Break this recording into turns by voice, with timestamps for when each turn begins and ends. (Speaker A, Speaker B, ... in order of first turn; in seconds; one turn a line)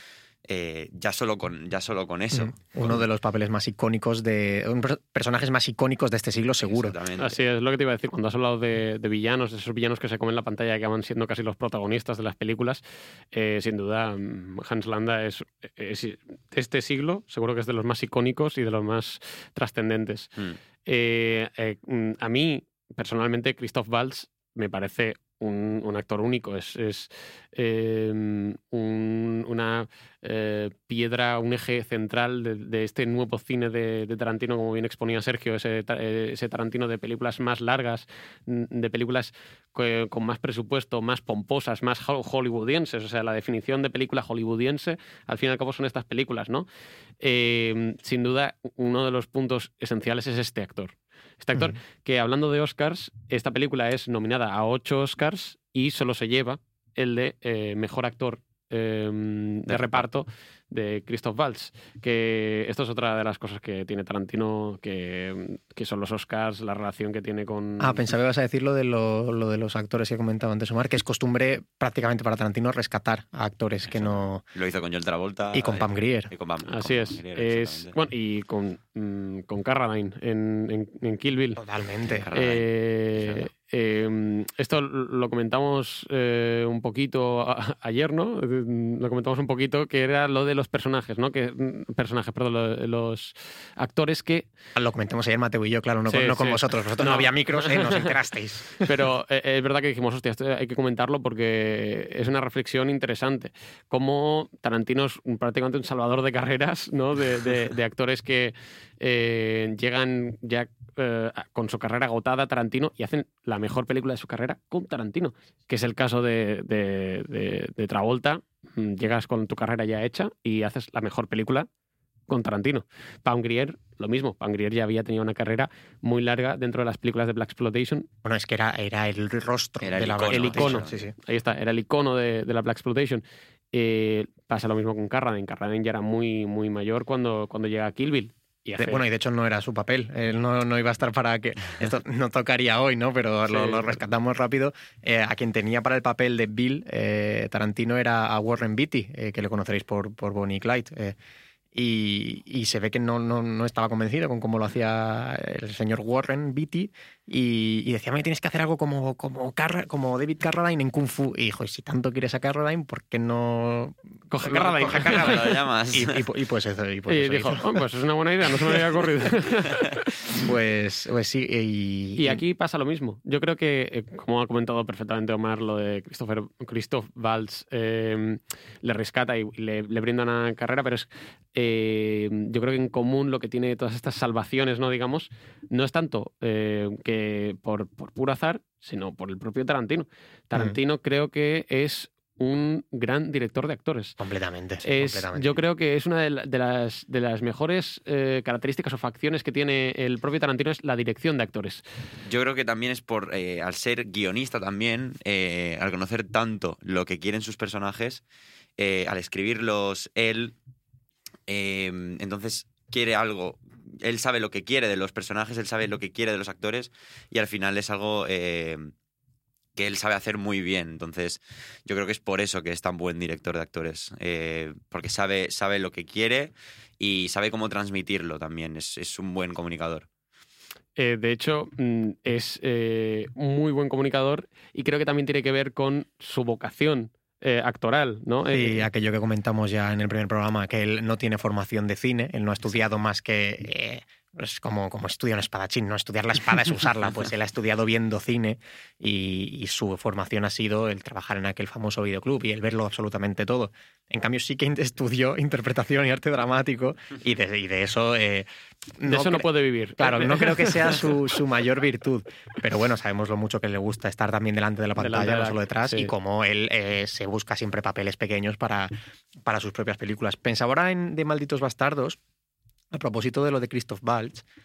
Speaker A: 0.5-3.0
Speaker B: 2.3-6.9
Speaker A: 6.6-7.4
Speaker C: 7.2-20.3
Speaker C: 20.9-46.7
Speaker C: 47.2-68.1
Speaker B: 67.8-74.4
Speaker A: 73.9-78.0
Speaker B: 75.5-76.3
Speaker C: 76.7-81.6
Speaker B: 81.6-82.3
Speaker A: 82.1-83.5
Speaker C: 82.3-94.5
Speaker B: 94.8-98.8
Speaker C: 96.1-98.1
Speaker C: 98.8-121.7
Speaker C: 122.3-128.1
Speaker B: 128.2-131.1
Speaker A: 129.8-131.0
Speaker C: 130.3-139.0
Speaker B: 138.8-151.2
Speaker C: 143.5-143.9
Speaker B: 151.7-167.8
Speaker C: 164.3-165.4
Speaker A: 164.5-166.2
Speaker C: 167.1-170.0
Speaker B: 170.3-172.4
Speaker C: 172.2-194.2
Speaker B: 194.2-195.6
Speaker C: 194.8-201.8
Speaker A: 202.2-208.2
Speaker A: 208.8-210.5
Speaker A: 211.5-218.9
Speaker A: 219.8-230.1
Speaker C: 231.0-238.8
Speaker B: 238.5-258.5
Speaker B: 259.0-259.5
Speaker C: 259.1-261.1
Speaker B: 260.0-272.2
Speaker C: 265.0-266.1
Speaker B: 272.9-274.4